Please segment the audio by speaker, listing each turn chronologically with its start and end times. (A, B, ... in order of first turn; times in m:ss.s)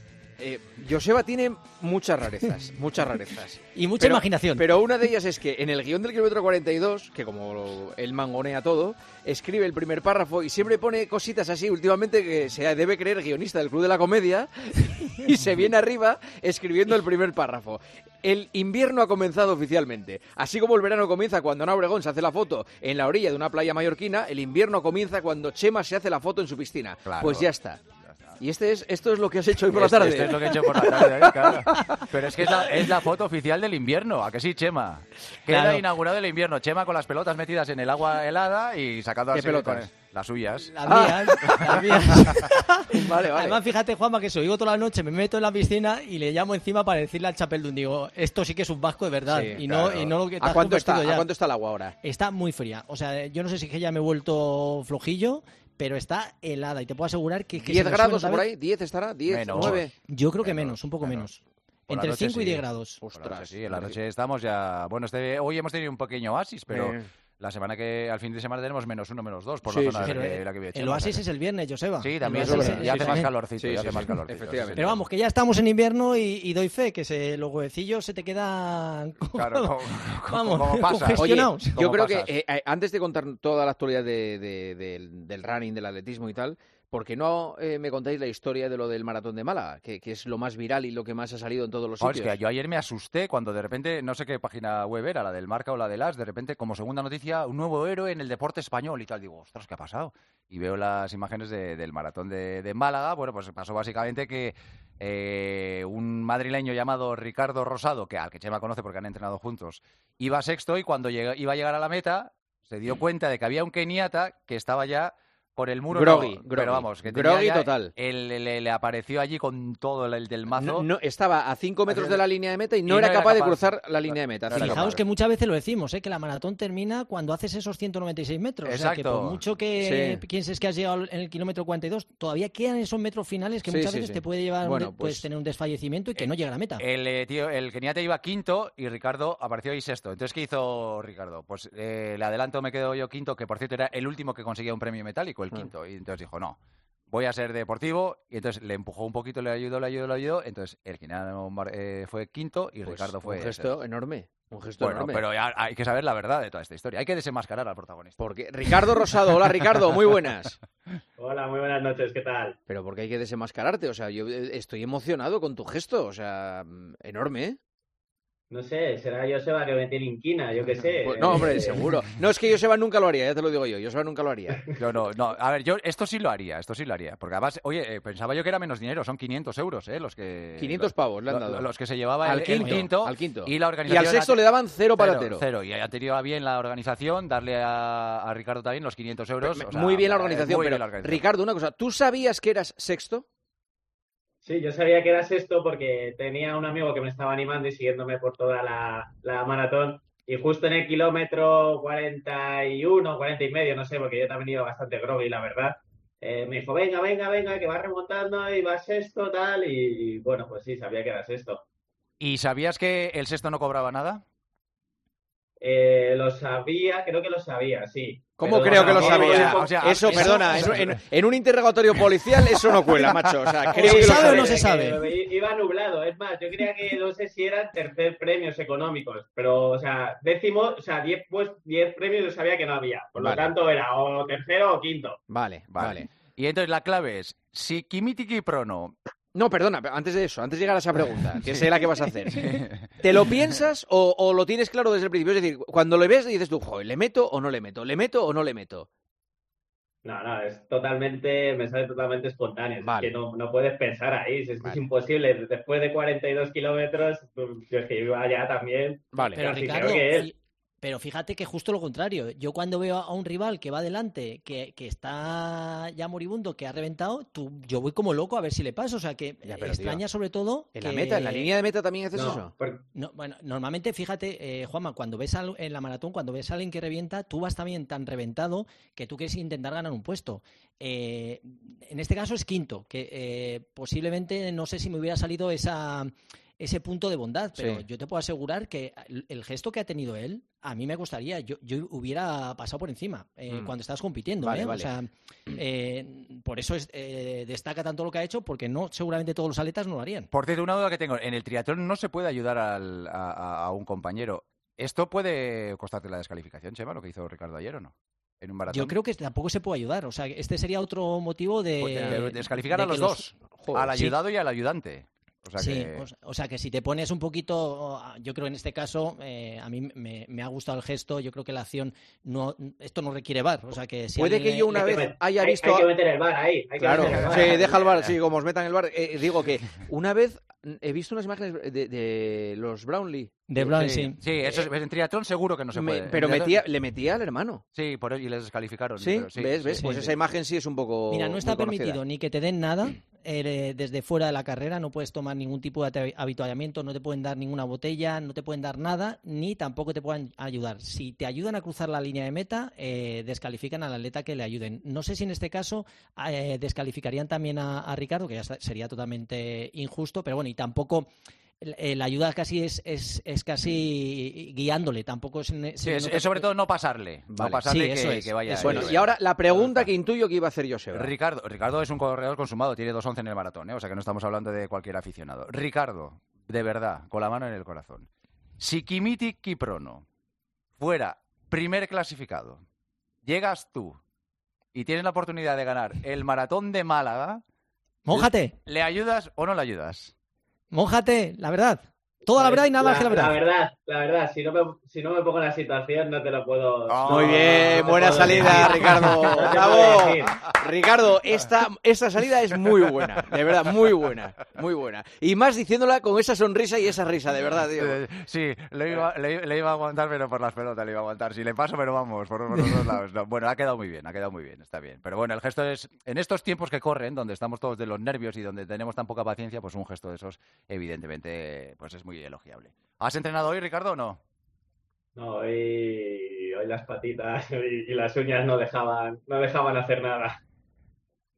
0:00.4-0:27.8 A
0:03.7-0:04.7 B
0:27.0-0:27.5 C
0:28.0-0:28.4 C
0:28.4-0:31.7 A
0:29.7-0:41.3 C
0:35.5-0:35.8 B
0:39.3-0:39.9 A
0:40.6-0:51.3 B
0:40.9-0:42.0 A
0:42.9-0:43.6 A
0:49.3-0:52.0 A
0:52.0-0:58.5 B
0:57.6-0:59.9 A
0:59.3-1:01.3 C
0:59.5-1:03.0 B
1:01.9-1:11.2 C
1:03.0-1:04.0 A
1:06.7-1:07.0 A
1:09.7-1:10.2 A
1:10.0-1:13.3 B
1:12.0-1:15.0 C
1:12.3-1:14.8 A
1:14.8-1:21.8 B
1:19.3-1:22.3 C
1:21.2-1:32.4 A
1:32.0-2:00.9 C
1:55.9-1:57.9 A
2:00.5-2:05.0 A
2:01.9-2:02.2 C
2:02.8-2:05.0 C
2:04.5-2:16.8 B
2:08.6-2:09.4 C
2:09.8-2:10.2 A
2:13.7-2:15.3 A
2:16.8-2:26.6 C
2:27.1-2:33.8 C
2:32.8-2:35.2 A
2:34.8-2:38.2 C
2:38.2-2:40.6 A
2:41.2-2:42.6 D
2:42.7-2:47.6 A
2:48.5-2:51.9 D
2:51.0-2:54.8 A
2:54.8-3:11.2 C
3:00.6-3:01.7 A
3:02.2-3:05.4 A
3:02.6-3:02.9 B
3:09.4-3:13.3 A
3:14.4-3:31.6 D
3:32.2-3:34.2 C
3:35.6-3:40.1 D
3:38.4-3:44.6 A
3:38.4-3:41.0 C
3:40.2-3:40.8 B
3:43.7-3:55.2 D
3:43.8-3:45.0 B
3:53.2-3:53.5 A
3:55.3-3:56.1 A
3:55.7-3:59.0 C
3:59.4-4:08.9 A
4:01.5-4:03.0 C
4:10.0-4:20.3 D
4:12.8-4:13.1 A
4:19.1-4:19.4 A
4:19.4-4:31.5 B
4:29.5-4:30.0 A
4:30.8-4:32.5 A
4:32.1-4:32.8 D
4:32.9-5:00.3 B
4:54.4-4:54.9 A
5:00.3-5:09.0 C
5:08.7-5:13.3 B
5:11.8-5:12.2 A
5:11.9-5:16.1 C
5:13.6-5:13.9 A
5:15.6-5:24.8 B
5:24.2-5:25.9 A
5:24.7-5:27.8 D
5:26.8-5:34.7 A
5:33.5-5:34.2 B
5:34.0-5:36.6 C
5:35.8-5:37.6 A
5:37.7-5:39.9 C
5:39.0-5:42.0 A
5:39.8-5:40.2 B
5:41.1-6:06.5 B
6:05.8-6:09.9 C
6:07.3-6:07.6 A
6:07.7-6:08.9 B
6:08.6-6:11.1 A
6:10.9-6:20.0 C
6:20.8-6:22.6 C
6:23.2-6:24.0 C
6:24.7-6:27.4 C
6:28.0-6:28.6 B
6:28.1-6:30.1 C
6:30.7-6:33.4 B
6:32.3-6:40.5 D
6:36.9-6:39.5 C
6:37.1-6:48.0 A
6:47.8-7:04.2 C
7:05.2-7:10.4 D